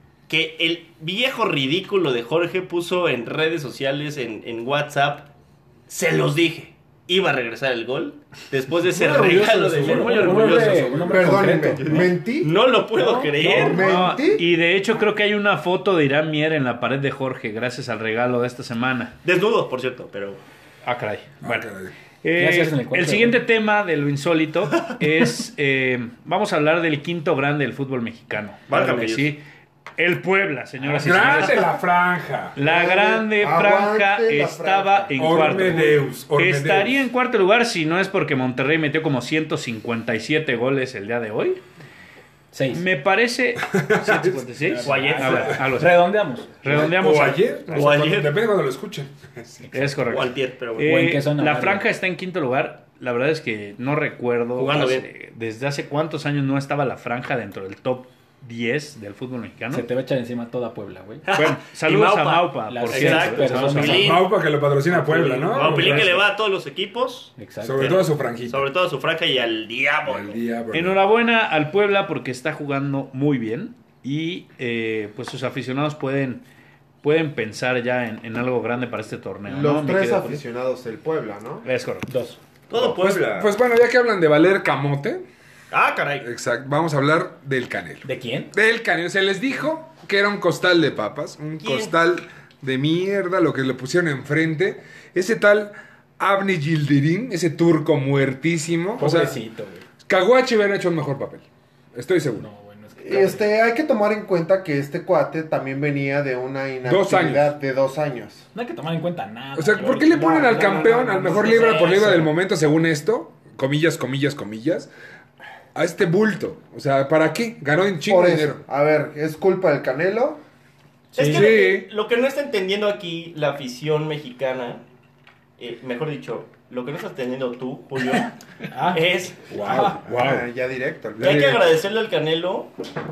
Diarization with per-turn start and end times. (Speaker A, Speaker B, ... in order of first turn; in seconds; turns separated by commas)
Speaker A: 0.3-5.3, Speaker A: 5.9-14.0, Speaker B: 8.9-12.1, Speaker C: 9.0-10.9, Speaker D: 10.6-11.1, Speaker E: 11.1-14.5, Speaker B: 13.3-14.1, Speaker C: 13.6-19.1, Speaker A: 19.2-20.4, Speaker C: 20.8-21.7, Speaker D: 21.4-21.9, Speaker C: 22.2-29.4, Speaker B: 22.4-23.4, Speaker A: 28.7-29.3, Speaker C: 30.0-31.7, Speaker B: 30.8-31.6, Speaker D: 31.0-32.5, Speaker C: 32.5-41.6, Speaker E: 32.6-35.7, Speaker D: 35.2-37.0, Speaker B: 42.5-42.8, Speaker C: 42.7-48.0, Speaker D: 43.7-44.5, Speaker B: 44.6-46.6, Speaker A: 44.9-45.5, Speaker D: 46.6-49.6, Speaker A: 47.7-48.4, Speaker B: 49.6-50.1, Speaker C: 49.7-59.9, Speaker A: 50.1-50.9, Speaker B: 50.8-51.9, Speaker A: 54.5-55.0, Speaker B: 59.7-61.2, Speaker A: 61.2-64.3, Speaker C: 61.3-64.2, Speaker B: 62.7-64.2, Speaker D: 63.8-66.1, Speaker A: 64.9-70.4, Speaker C: 65.0-66.2, Speaker B: 67.4-68.0, Speaker D: 67.6-68.7, Speaker D: 70.0-71.0, Speaker C: 70.7-76.4, Speaker C: 77.0-80.4, Speaker E: 79.5-81.7, Speaker C: 81.6-82.1, Speaker B: 82.1-82.4, Speaker A: 82.7-83.5, Speaker D: 82.7-85.2, Speaker A: 85.7-86.3, Speaker D: 86.2-99.4, Speaker B: 88.0-88.5, Speaker A: 91.6-91.9, Speaker B: 99.0-99.8, Speaker D: 100.0-102.5, Speaker B: 102.3-103.5, Speaker E: 103.0-108.4, Speaker D: 106.8-107.5, Speaker B: 108.5-112.3, Speaker D: 109.5-114.9, Speaker E: 110.2-111.0, Speaker A: 111.4-112.1, Speaker D: 115.7-118.6, Speaker E: 118.0-120.4, Speaker B: 121.1-121.5, Speaker A: 121.1-124.8, Speaker D: 121.2-121.9, Speaker A: 125.6-128.3, Speaker B: 128.7-129.1, Speaker A: 128.9-129.4, Speaker D: 129.5-130.5, Speaker B: 129.6-129.9, Speaker E: 130.0-131.4, Speaker D: 131.2-131.6, Speaker A: 131.2-132.7